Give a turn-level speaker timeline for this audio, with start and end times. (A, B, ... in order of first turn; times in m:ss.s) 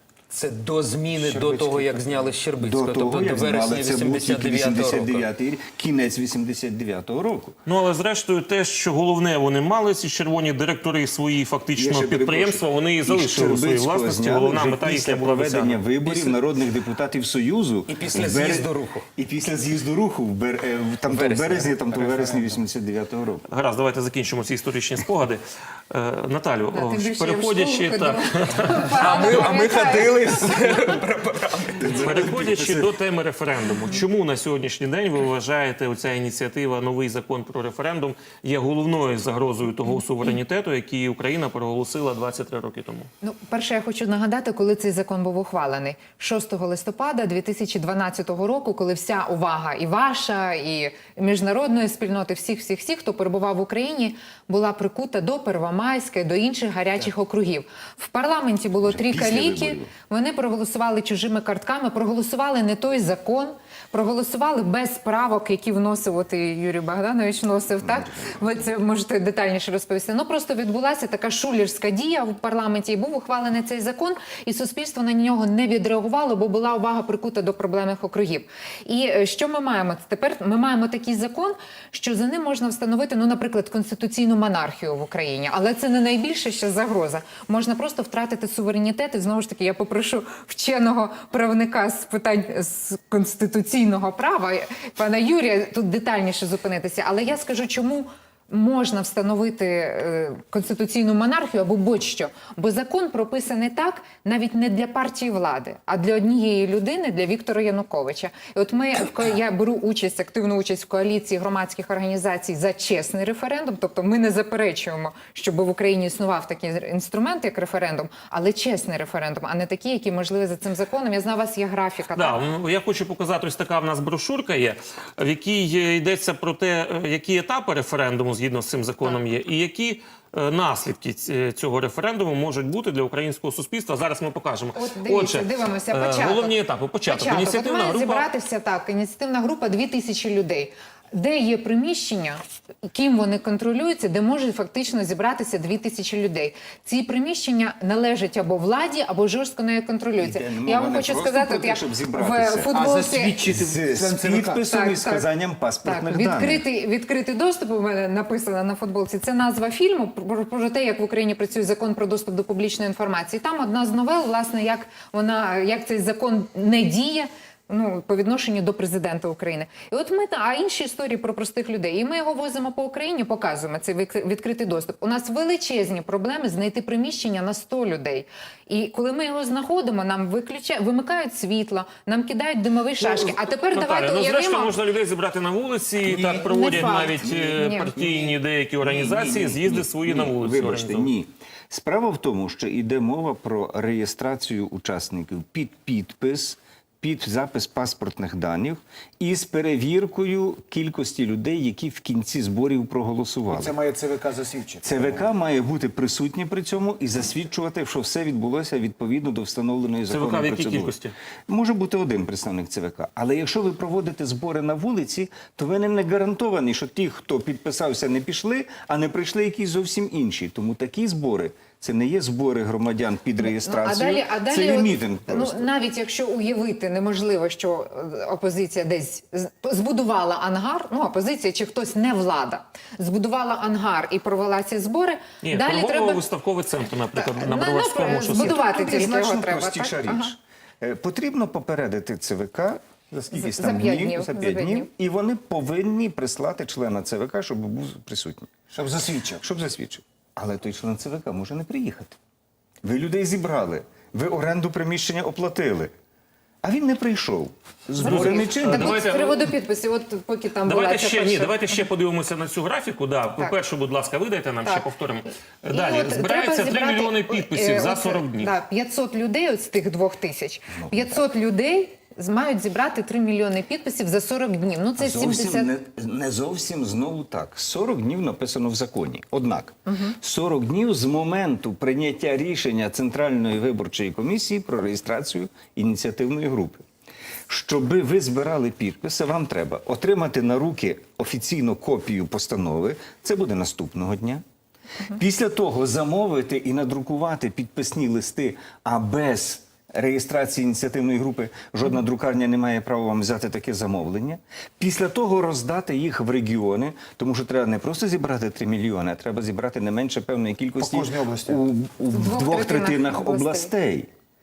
0:00.3-0:05.3 A
0:01.2-0:02.2 B
0:02.6-0:07.6 C
0:07.7-0:15.9 D
0:11.8-0:23.5 C
0:16.0-0:16.4 A
0:17.9-0:19.0 A
0:21.1-0:22.6 A
0:23.5-0:28.9 D
0:26.7-0:31.0 E
0:28.9-0:32.4 A
0:31.8-0:32.9 C
0:31.9-0:43.1 D
0:43.2-2:02.4 E
0:58.8-0:59.9 C
1:07.8-1:08.6 C
2:02.2-2:18.3 D
2:14.8-2:16.5 E
2:17.1-2:33.4 E
2:30.2-2:32.7 C
2:32.7-2:34.6 B
2:33.5-2:36.6 C
2:34.7-2:35.2 E
2:35.8-3:04.8 E
3:03.1-3:11.1 D
3:06.1-3:23.8 C
3:06.3-3:07.9 E
3:23.5-3:25.3 B
3:24.8-3:30.9 C
3:30.1-3:31.1 D
3:31.5-3:45.7 C
3:43.4-3:56.2 E
3:55.4-3:58.6 D
3:57.1-4:00.3 E
3:58.2-4:08.5 C
4:03.3-4:04.9 E
4:08.7-4:09.4 B
4:09.4-4:12.2 C
4:12.8-4:15.9 C
4:16.6-4:19.1 C
4:18.0-4:21.7 E
4:18.0-4:19.5 D
4:20.6-4:28.5 D
4:25.7-4:35.7 E
4:30.7-4:31.2 C
4:35.0-4:46.8 C
4:39.9-4:40.2 E
4:47.5-4:54.4 C
4:55.1-5:14.1 C
5:10.8-5:11.6 B
5:12.1-5:13.7 E